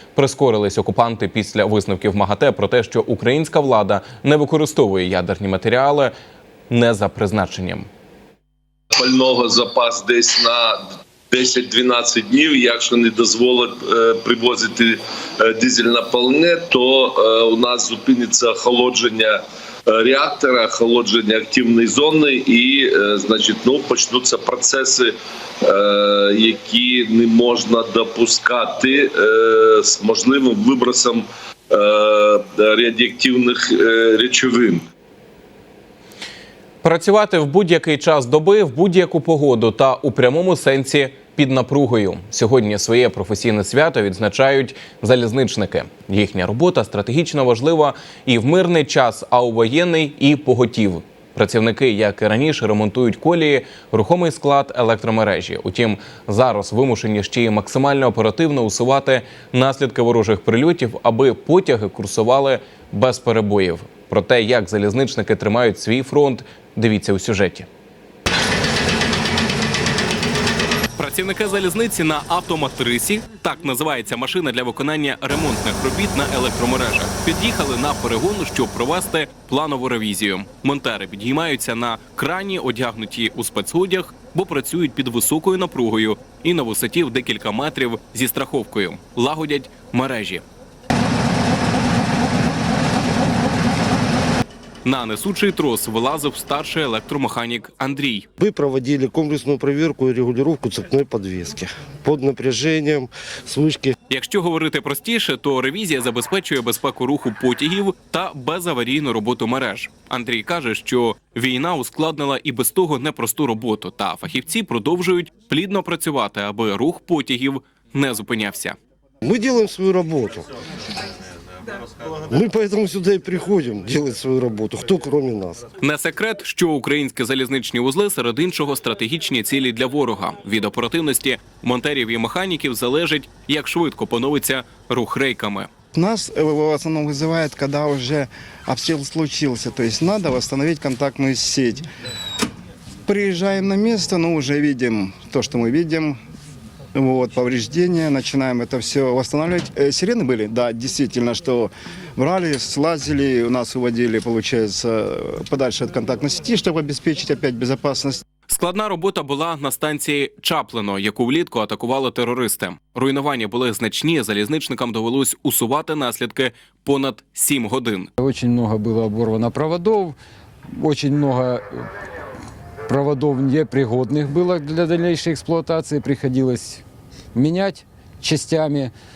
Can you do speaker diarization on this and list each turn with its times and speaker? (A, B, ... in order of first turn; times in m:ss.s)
0:00.2-0:06.1 A
0:06.7-0:07.9 A
0:08.9-0:34.8 B
0:36.8-1:07.7 A
1:11.0-1:30.4 A
1:34.8-1:38.3 A
1:38.4-1:43.9 C
1:44.1-1:58.8 A
1:59.2-2:00.4 C
2:02.3-2:05.6 C
2:05.8-2:15.7 A
2:15.9-2:21.8 D
2:23.1-2:26.2 D
2:26.9-2:38.2 D
2:38.5-2:48.1 A
2:48.2-2:50.2 E
2:50.7-2:51.9 E
2:52.9-2:58.9 E